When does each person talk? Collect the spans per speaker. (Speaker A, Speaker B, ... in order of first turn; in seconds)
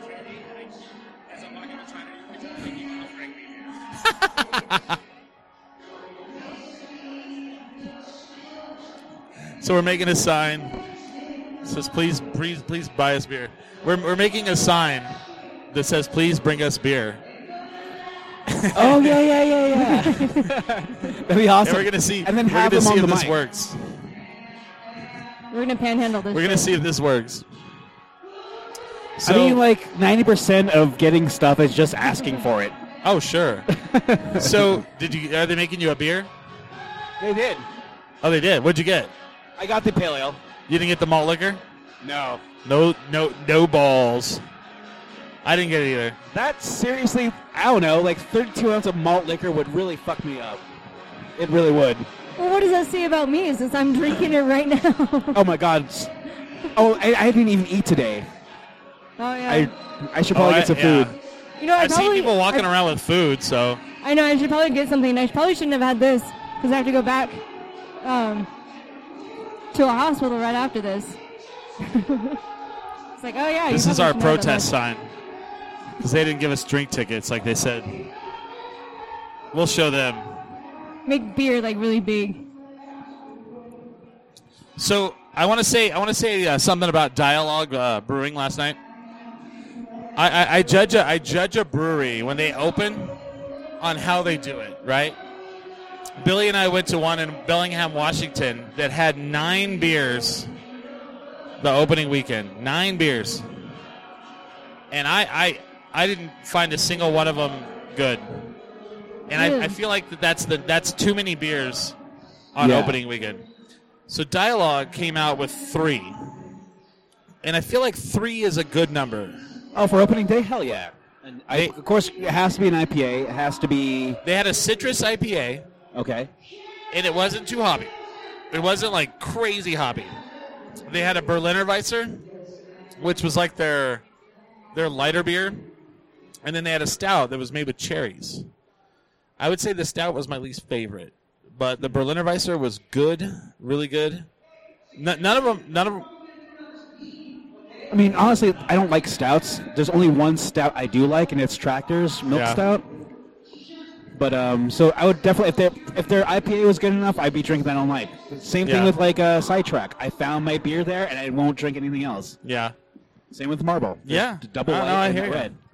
Speaker A: 4.0-4.9, 9.6-10.8, 11.6-15.1, 15.7-17.2, 18.5-19.2, 21.6-24.0, 26.3-27.4, 29.2-29.6, 33.0-33.7, 34.3-36.3, 38.2-39.1, 40.7-41.6, 42.6-44.4, 45.4-46.1, 60.3-61.1, 61.8-63.8, 73.7-75.0, 76.0-78.0, 79.5-80.3, 84.8-88.8, 90.2-93.2, 93.8-95.2, 96.2-100.5, 101.6-103.4, 104.9-108.5, 109.3-112.0, 112.5-113.4, 114.1-116.1, 117.4-119.4, 124.2-125.6, 126.9-127.9, 128.5-130.1, 130.9-132.2, 133.0-134.0, 134.7-135.7, 136.4-138.4, 139.4-144.3, 144.9-146.1, 152.3-152.6, 158.6-158.9, 162.4-162.7, 164.1-165.5
Speaker B: 18.7-23.4, 29.2-32.7, 33.8-34.8, 37.2-37.6, 39.6-40.4, 42.0-42.4, 46.3-50.6, 51.4-52.1, 55.3-56.1, 56.7-58.3, 59.5-61.1, 112.6-113.0, 119.7-124.2, 125.9-126.3, 147.9-152.9, 154.1-162.3, 163.3-165.5
Speaker C: 19.8-20.4, 25.5-26.7, 52.4-55.4, 59.2-59.7, 61.6-62.6, 64.0-67.4, 68.0-68.5, 69.7-71.2, 71.8-72.4, 73.2-74.7, 81.0-82.4, 109.3-109.8